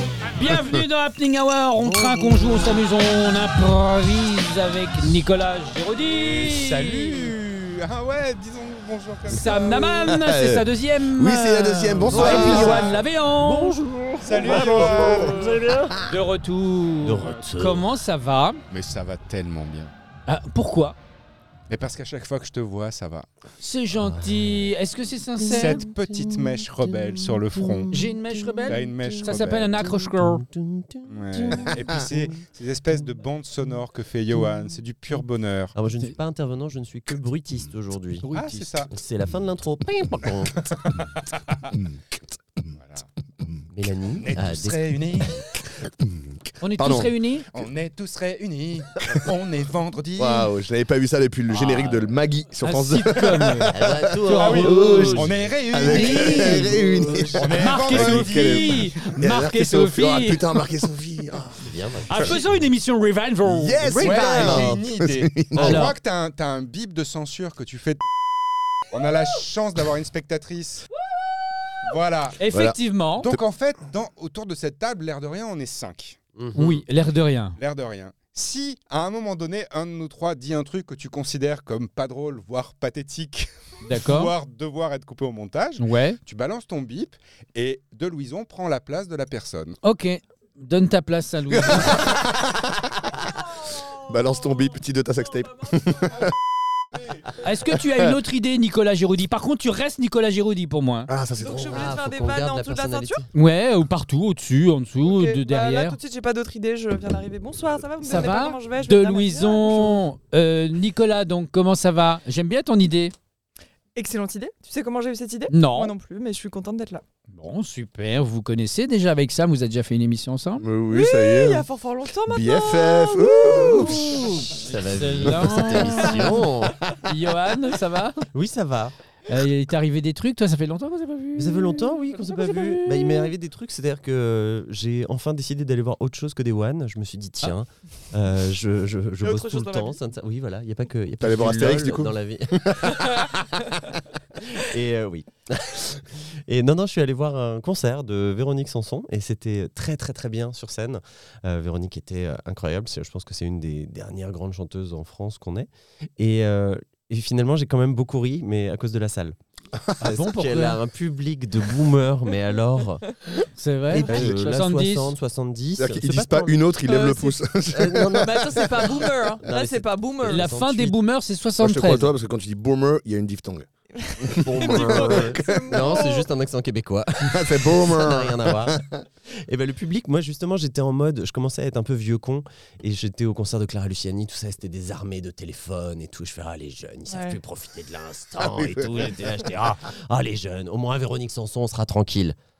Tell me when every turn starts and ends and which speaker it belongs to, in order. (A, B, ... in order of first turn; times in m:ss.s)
0:00.2-0:07.3 A
0:01.8-0:02.7 B
0:06.2-0:09.8 C
0:09.3-0:13.8 A
0:10.0-0:12.9 D
0:12.1-0:16.1 B
0:12.1-0:13.0 C
0:14.2-0:15.4 C
0:14.8-0:15.5 D
0:16.0-0:18.6 A
0:17.0-0:17.8 B
0:18.7-0:19.9 C
0:20.3-0:21.0 A
0:21.7-0:23.2 C
0:23.6-0:25.8 A
0:24.0-0:24.6 B
0:25.4-0:32.3 B
0:25.5-0:28.0 C
0:27.9-0:30.4 A
0:28.7-0:29.8 C
0:31.1-0:35.7 C
0:35.7-0:38.2 B
0:38.2-0:38.8 A
0:38.3-0:38.9 C
0:38.9-0:40.8 B
0:40.9-0:41.7 C
0:41.7-0:42.2 D
0:42.8-0:43.1 C
0:43.7-0:44.8 B
0:44.2-0:45.4 C
0:46.0-0:47.1 D
0:46.6-0:47.4 A
0:47.5-0:50.5 C
0:50.2-1:02.3 D
0:51.5-0:52.0 B
0:52.6-0:55.3 A
0:53.7-0:55.3 B
0:54.4-0:56.8 C
0:55.9-0:56.6 A
0:55.9-0:57.4 B
0:57.3-0:58.8 C
0:57.6-1:00.4 A
1:01.7-1:02.3 B
1:02.0-1:04.6 A
1:03.4-1:05.9 D
1:03.8-1:08.1 C
1:04.0-1:04.6 B
1:05.5-1:05.9 A
1:08.9-1:10.9 C
1:11.8-1:12.4 C
1:12.4-1:13.3 A
1:12.5-1:12.8 D
1:13.2-1:16.2 C
1:16.4-1:16.6 B
1:16.5-1:17.6 A
1:17.6-1:29.8 C
1:23.8-1:24.3 A
1:25.8-1:26.2 A
1:29.8-1:32.2 A
1:31.8-1:33.2 D
1:33.9-1:36.3 D
1:37.4-1:41.1 A
1:41.1-1:42.0 D
1:41.4-1:43.2 E
1:41.6-1:43.3 B
1:43.3-1:46.0 A
1:45.0-1:50.0 E
1:48.0-1:53.1 A
1:53.9-1:57.0 E
1:55.5-1:55.9 A
1:57.3-2:00.6 A
2:00.6-2:01.6 D
2:00.9-2:04.3 E
2:02.3-2:04.2 D
2:03.8-2:06.4 A
2:04.3-2:06.9 B
2:06.9-2:08.3 A
2:08.3-2:08.9 B
2:09.3-2:13.3 A
2:11.4-2:23.3 B
2:19.2-2:20.0 E
2:21.2-2:23.7 D
2:24.5-2:39.4 B
2:40.0-2:40.8 A
2:40.0-2:43.2 B
2:43.6-2:45.1 A
2:43.9-2:46.7 B
2:44.0-2:44.4 D
2:45.8-2:49.1 D
2:46.8-2:47.4 E
2:47.7-2:48.8 B
2:48.1-2:50.5 E
2:49.4-2:51.0 B
2:50.2-2:52.1 A
2:51.6-2:53.7 D
2:53.9-2:56.3 E
2:54.2-2:56.1 D
2:54.4-2:58.8 B
2:57.3-2:59.0 D
2:59.4-3:12.4 B
3:07.1-3:07.4 E
3:08.4-3:09.3 D